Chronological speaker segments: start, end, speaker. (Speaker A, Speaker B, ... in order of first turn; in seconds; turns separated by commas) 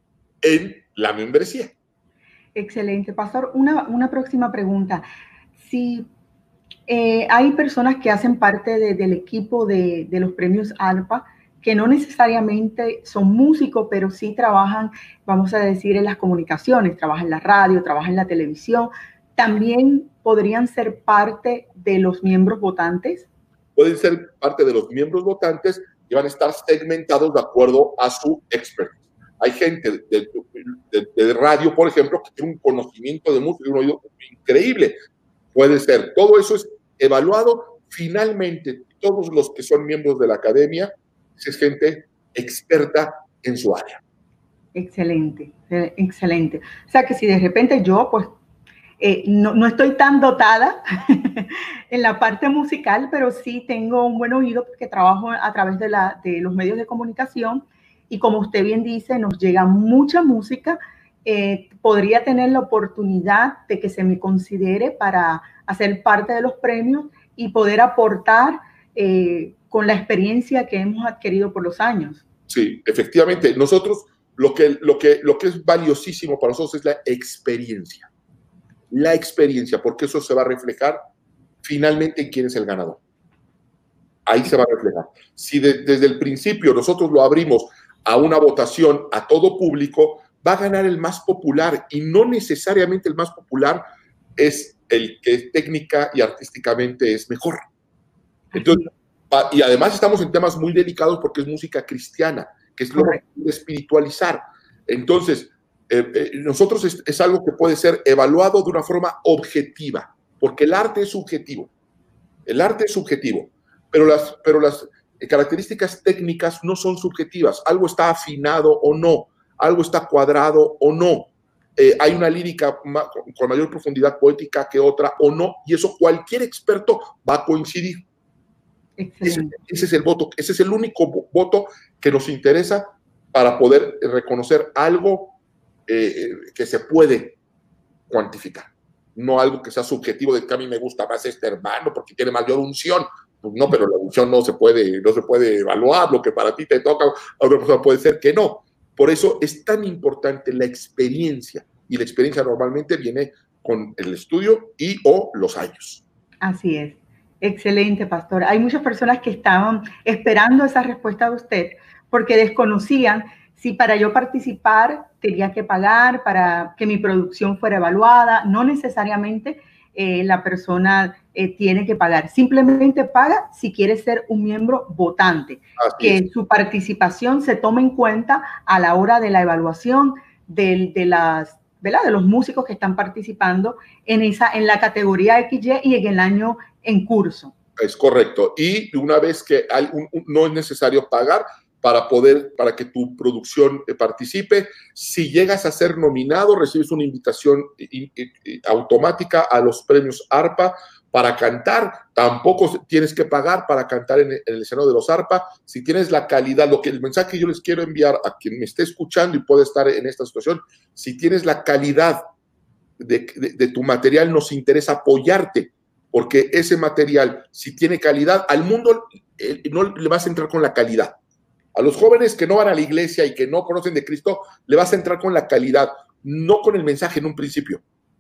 Speaker A: 0.4-1.7, Speaker B: 2.6-5.0, Speaker B: 5.6-6.1, Speaker B: 6.9-23.3, Speaker A: 23.8-35.0, Speaker A: 35.5-44.0, Speaker B: 44.8-48.4, Speaker B: 49.0-72.2, Speaker A: 72.5-78.1, Speaker A: 78.9-81.0, Speaker A: 81.6-83.0, Speaker A: 84.3-93.8, Speaker A: 94.4-97.7, Speaker B: 98.5-98.8, Speaker A: 98.5-111.7, Speaker B: 103.0-103.2, Speaker A: 112.5-128.1, Speaker B: 129.0-129.5, Speaker A: 129.2-135.3, Speaker A: 135.9-137.4, Speaker A: 138.1-156.0, Speaker B: 156.4-187.5, Speaker A: 175.8-176.2, Speaker A: 187.8-212.2, Speaker A: 213.0-221.2, Speaker A: 221.8-227.8